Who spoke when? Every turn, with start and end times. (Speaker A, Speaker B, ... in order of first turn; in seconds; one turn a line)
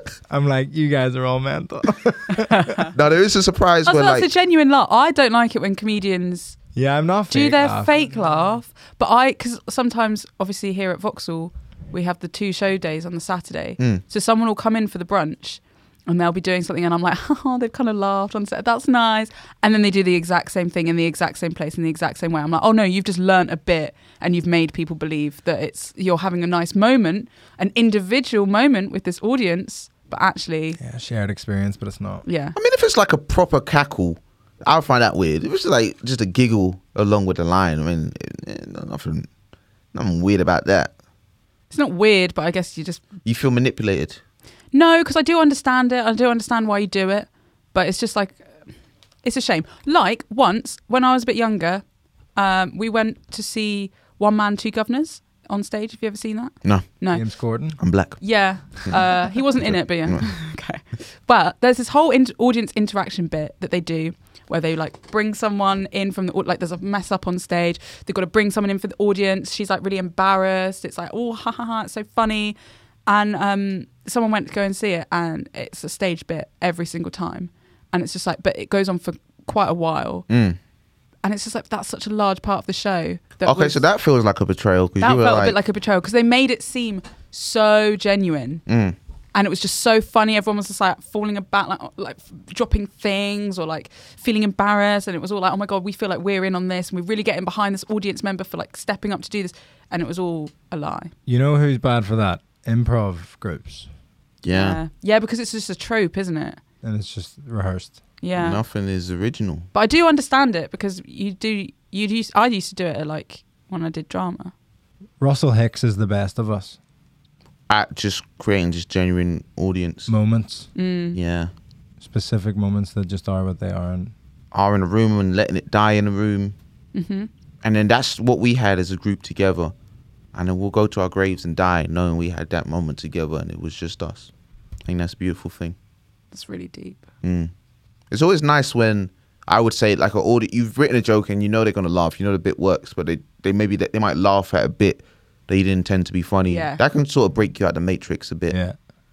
Speaker A: 0.3-2.8
Speaker B: 2.4-2.9
Speaker C: 2.9-4.3
Speaker B: 3.9-6.6
Speaker A: 6.8-8.1
Speaker B: 7.3-30.8
Speaker A: 30.8-32.2
Speaker B: 32.2-32.6
Speaker C: 32.5-39.3
Speaker C: 39.9-40.9
Speaker B: 41.7-43.1
Speaker C: 43.2-44.2
Speaker B: 44.7-48.4
Speaker B: 49.2-51.8
Speaker B: 52.4-57.2
Speaker A: 57.1-57.8
Speaker C: 57.8-58.2
Speaker B: 58.2-72.6
Speaker C: 59.6-60.3
Speaker B: 73.1-80.3
Speaker C: 80.3-80.6
Speaker B: 81.2-83.8
Speaker C: 83.5-85.6
Speaker B: 85.0-88.6
Speaker C: 88.7-89.0
Speaker B: 89.3-101.1
Speaker A: 101.3-103.9
Speaker C: 104.4-104.8
Speaker B: 104.5-106.6
Speaker A: 106.8-108.0
Speaker B: 108.2-108.6
Speaker C: 108.4-109.7
Speaker B: 109.7-114.5
Speaker A: 115.2-116.8
Speaker C: 117.7-120.1
Speaker A: 120.1-120.7
Speaker B: 120.8-121.2
Speaker C: 121.1-121.5
Speaker A: 122.0-124.1
Speaker C: 124.5-126.6
Speaker B: 126.9-127.3
Speaker C: 127.6-129.7
Speaker C: 130.3-134.3
Speaker C: 134.9-135.8
Speaker B: 136.3-137.0
Speaker C: 137.2-137.5
Speaker C: 138.1-148.6
Speaker B: 146.5-146.8
Speaker A: 148.5-148.8